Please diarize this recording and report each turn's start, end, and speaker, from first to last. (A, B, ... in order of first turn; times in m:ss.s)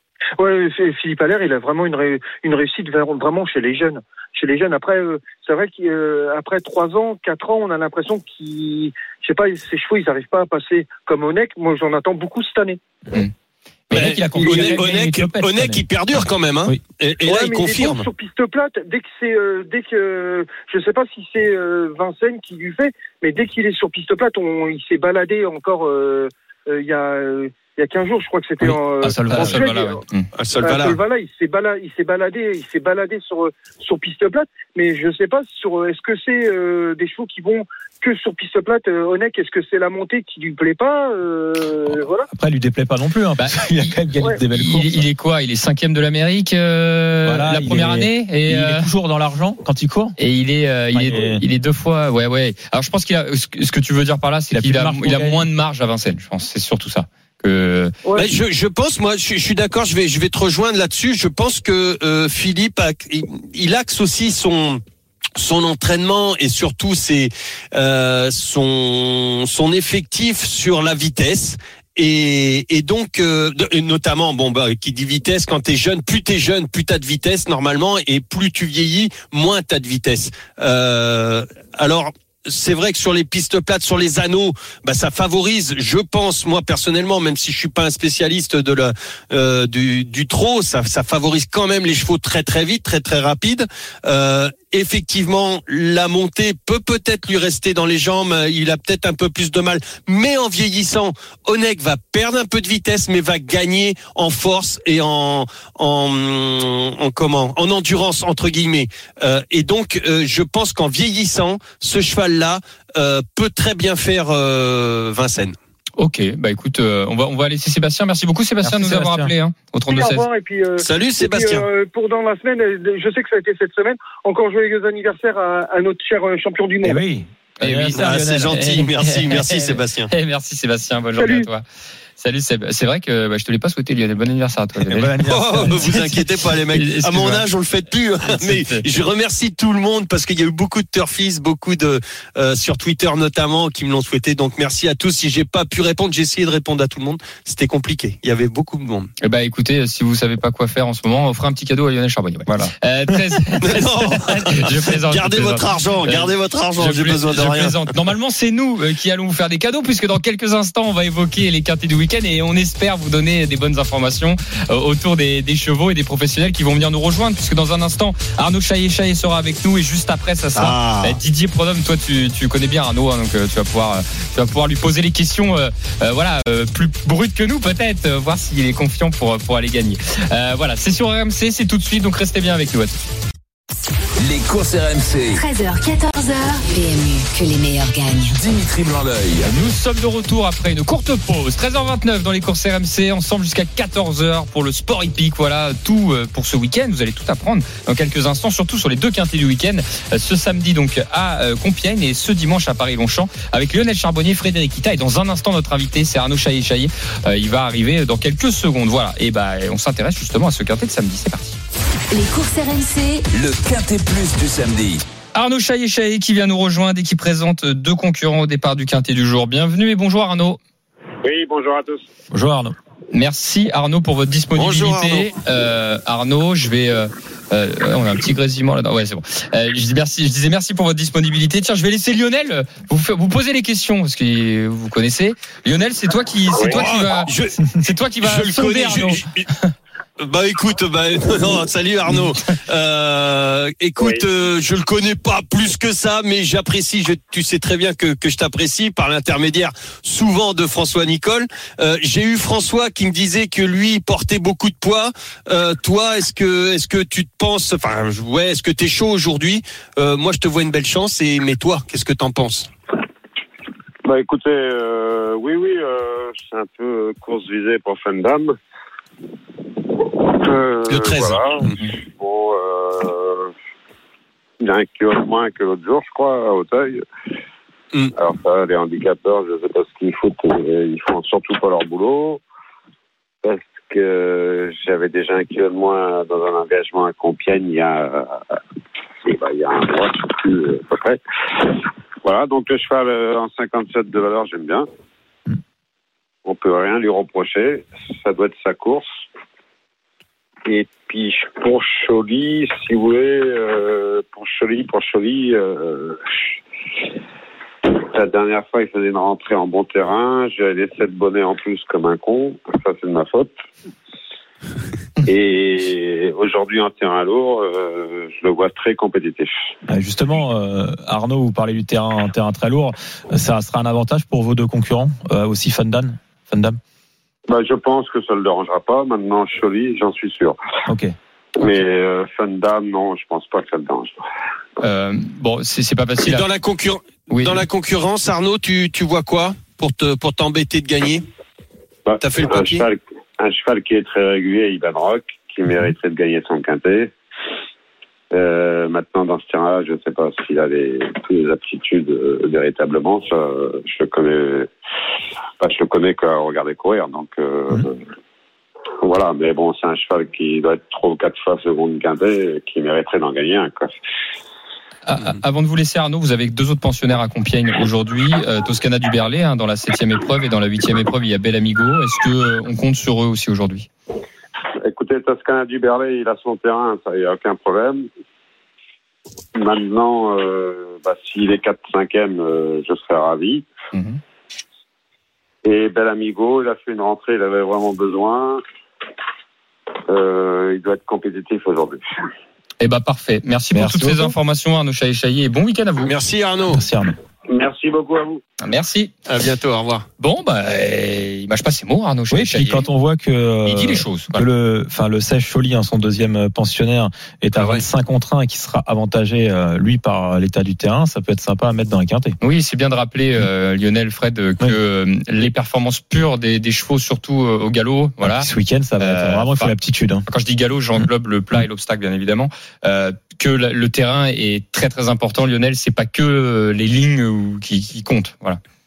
0:00.4-0:12.8 A
0:13.9-0:14.8 B
0:13.9-0:15.8 C
0:13.9-0:18.1 D
0:17.2-0:30.0 A
0:28.6-0:29.6 C
0:29.3-0:30.3 B
0:30.4-0:31.0 D
0:30.6-0:42.3 A
0:42.3-0:45.0 C
0:43.4-0:48.9 B
0:47.2-0:50.2 C
0:50.2-0:57.9 B
0:50.9-0:51.4 C
0:54.5-0:55.4 C
0:58.2-1:04.8 D
1:05.4-1:55.6 D
1:56.0-2:00.2 B
1:58.6-1:59.3 C
1:59.9-2:07.0 A
2:00.8-2:01.6 D
2:06.8-2:08.8 C
2:07.6-2:11.6 B
2:07.9-2:10.1 D
2:11.2-2:11.5 A
2:12.2-2:15.9 B
2:14.8-2:16.2 C
2:15.2-2:29.1 D
2:16.7-2:17.4 B
2:18.3-2:18.8 B
2:29.2-3:03.0 B
2:32.4-2:33.2 C
2:33.6-2:37.8 D
2:50.5-2:51.2 D
3:04.2-3:05.4 E
3:05.3-3:08.4 F
3:08.3-3:09.6 E
3:09.4-3:31.6 B
3:32.1-3:33.2 F
3:33.3-3:35.0 E
3:35.3-3:40.6 B
3:41.2-3:42.0 G
3:42.3-3:42.7 C
3:43.1-3:59.7 B
3:44.5-3:45.3 D
3:56.6-3:57.6 D
3:58.2-3:59.5 D
4:00.2-4:22.7 D
4:24.0-4:28.6 G
4:29.9-4:33.5 G
4:30.9-4:31.8 D
4:34.6-4:37.0 G
4:38.2-4:42.4 G
4:43.4-4:48.6 G
4:49.2-4:54.8 G
4:56.4-4:59.0 G
5:00.6-5:06.3 G
5:07.8-5:13.6 G
5:15.2-5:19.5 G
5:19.9-5:26.8 C
5:27.5-5:30.6 G
5:30.8-5:31.1 C
5:31.6-5:34.2 G
5:34.8-5:36.4 B
5:36.2-5:41.2 D
5:37.3-5:37.6 B
5:42.0-5:47.1 G
5:42.2-5:42.8 D
5:48.3-5:54.7 G
5:55.6-5:58.0 G
5:59.0-6:03.9 G
6:05.0-6:13.9 B
6:14.8-6:18.1 G
6:19.6-6:23.7 G
6:23.9-6:24.2 B
6:25.6-6:28.6 G
6:30.1-6:32.0 G
6:32.8-6:36.1 B
6:33.7-6:34.3 C
6:36.0-6:36.8 D
6:36.7-6:37.2 C
6:37.5-6:38.4 G
6:38.6-6:39.1 B
6:39.2-6:40.0 D
6:40.2-6:42.9 B
6:42.3-6:52.4 C
6:43.6-6:44.4 B
6:47.5-6:47.8 D
6:52.4-6:58.5 B
6:58.2-7:00.2 C
6:59.0-6:59.7 B
7:00.3-7:08.6 B